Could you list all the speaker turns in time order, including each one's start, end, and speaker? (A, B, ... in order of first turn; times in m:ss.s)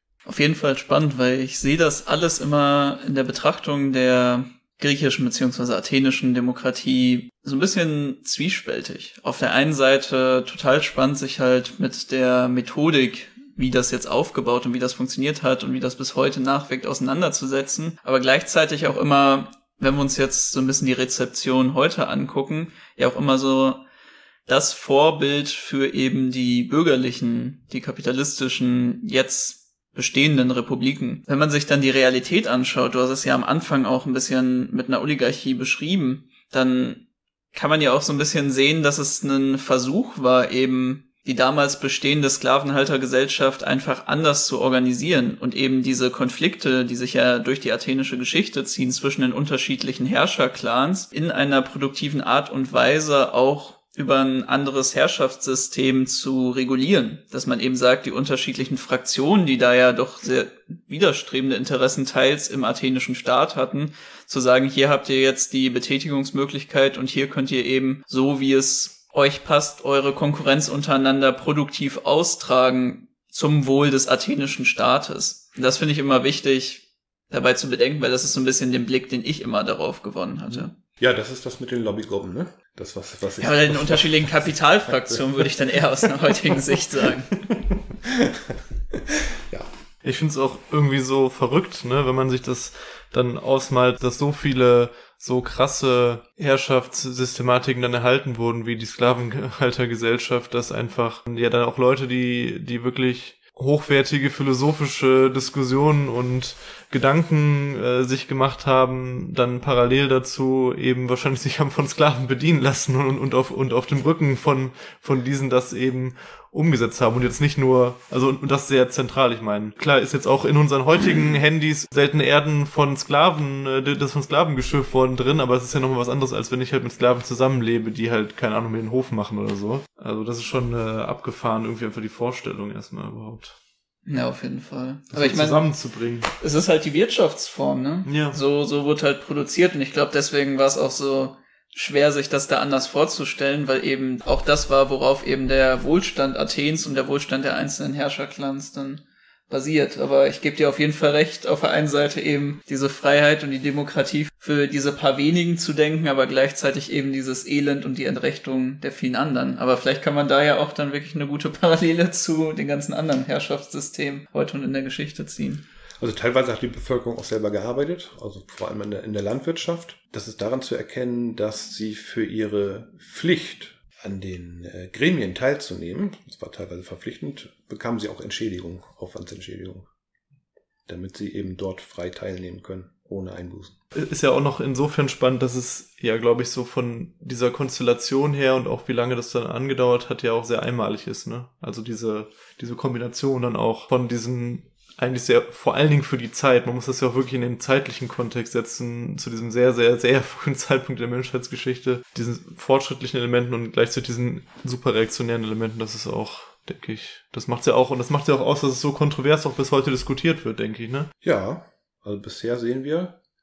0:00.3-0:23.8 A
0:24.5-0:37.0 A
0:37.5-1:20.7 A
1:20.5-1:24.5 B
1:23.4-1:27.4 A
1:25.1-1:29.7 B
1:30.0-2:13.6 C
2:14.1-2:15.7 A
2:15.1-2:16.3 C
2:16.4-2:45.6 A
2:18.1-2:18.4 C
2:46.0-2:59.9 B
3:00.9-3:03.8 B
3:04.0-3:31.1 C
3:31.2-3:33.2 B